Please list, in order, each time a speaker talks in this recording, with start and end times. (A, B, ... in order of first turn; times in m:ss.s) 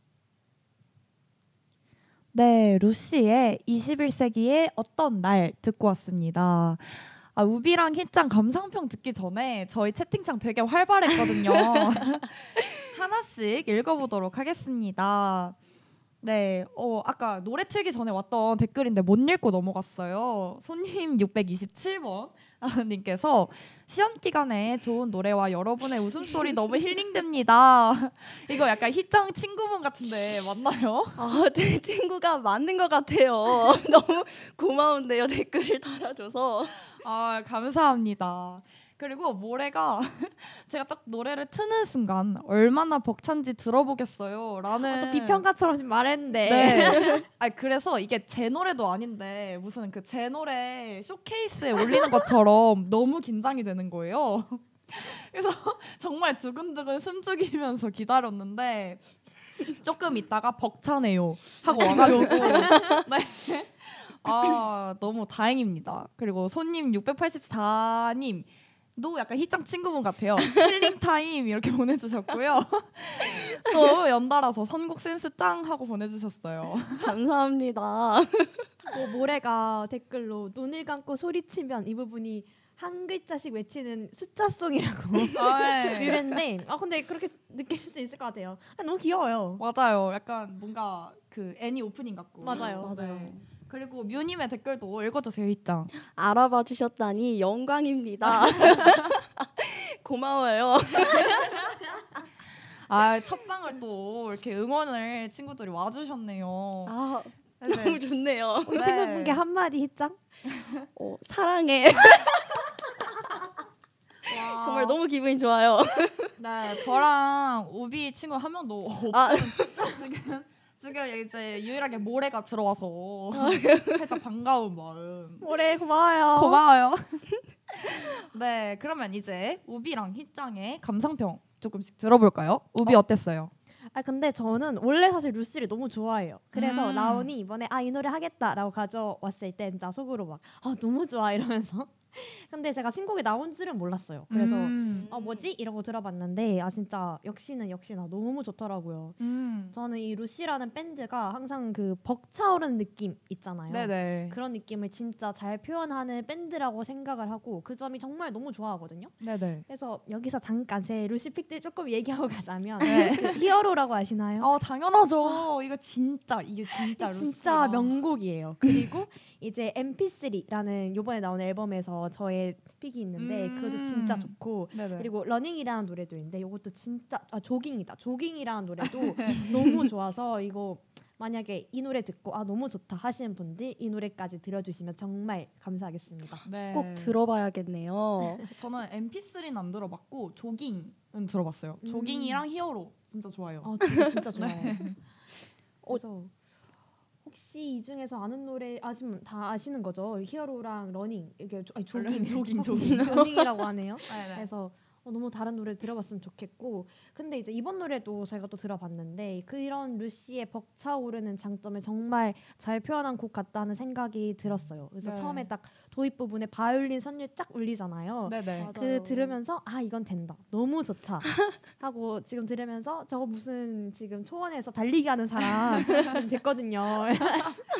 0:02.3-0:15.6 A
0:11.3-0:12.0 B
0:16.2-0:31.4 A
0:31.2-0:36.9 B
0:37.0-0:45.4 A
0:44.8-0:47.2 C
0:46.4-1:17.1 A
1:01.6-1:03.0 B
1:17.0-1:18.7 B
1:18.9-1:29.6 C
1:25.3-1:26.2 A
1:26.1-1:26.4 B
1:29.6-1:35.9 A
1:32.4-1:33.0 C
1:32.5-1:33.4 B
1:35.9-1:41.8 B
1:38.2-1:39.1 A
1:42.9-1:46.9 A
1:46.9-1:48.9 B
1:47.6-1:48.0 A
1:48.7-1:49.4 A
1:48.7-1:50.2 C
1:50.5-1:50.9 A
1:50.9-1:53.4 B
1:54.2-1:55.0 A
1:54.3-1:56.4 B
1:56.4-2:05.5 A
1:59.1-1:59.8 B
2:03.3-2:04.2 B
2:05.4-2:06.6 C
2:06.4-2:07.3 A
2:07.9-2:13.5 A
2:13.9-2:29.2 C
2:16.5-2:17.3 A
2:24.3-2:25.1 A
2:24.8-2:25.5 B
2:29.2-2:29.8 A
2:29.7-2:44.5 C
2:33.7-2:34.4 A
2:39.2-2:39.6 A
2:42.8-2:43.4 A
2:44.4-2:48.0 A
2:46.7-3:06.5 C
2:53.2-2:55.1 A
2:58.8-2:59.5 A
3:06.4-3:07.1 A
3:06.7-3:08.4 B
3:08.5-3:13.7 A
3:11.8-3:12.4 C
3:13.6-3:15.0 C
3:14.3-3:15.0 A
3:15.8-3:16.3 C
3:17.2-3:47.6 C
3:21.9-3:24.5 A
3:35.0-3:35.5 A
3:38.3-3:38.7 A
3:38.6-3:39.4 B
3:45.7-3:46.2 A